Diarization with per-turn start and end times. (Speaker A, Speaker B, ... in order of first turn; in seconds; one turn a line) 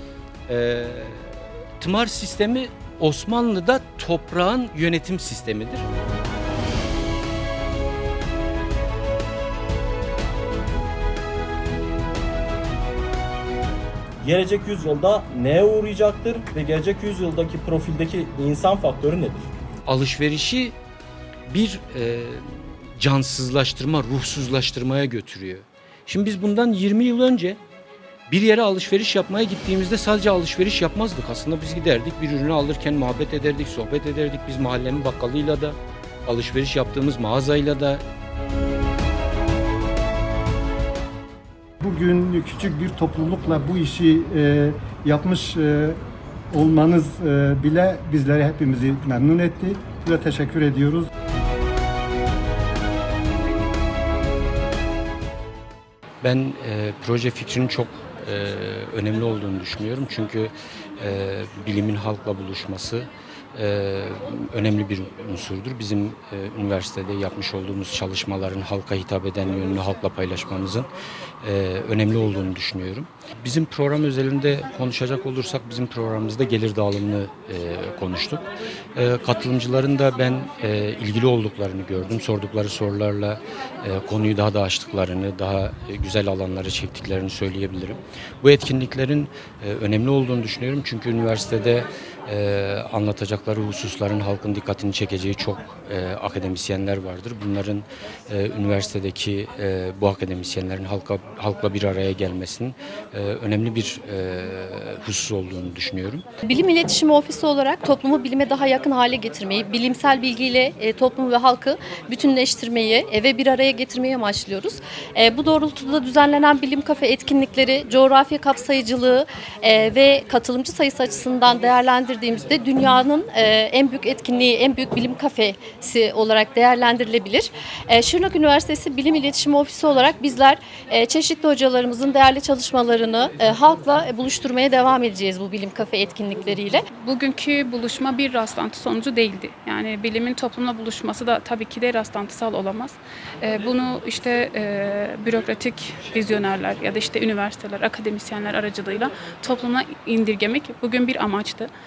Speaker A: 0.5-5.9
Speaker B: 14.2-19.5
Speaker A: 19.9-20.8
Speaker A: 21.5-27.6
Speaker A: 28.3-38.0
Speaker C: 41.8-46.0
Speaker C: 46.5-51.1
Speaker A: 56.2-70.9
Speaker A: 71.4-106.2
Speaker D: 106.5-136.8
Speaker E: 137.0-151.7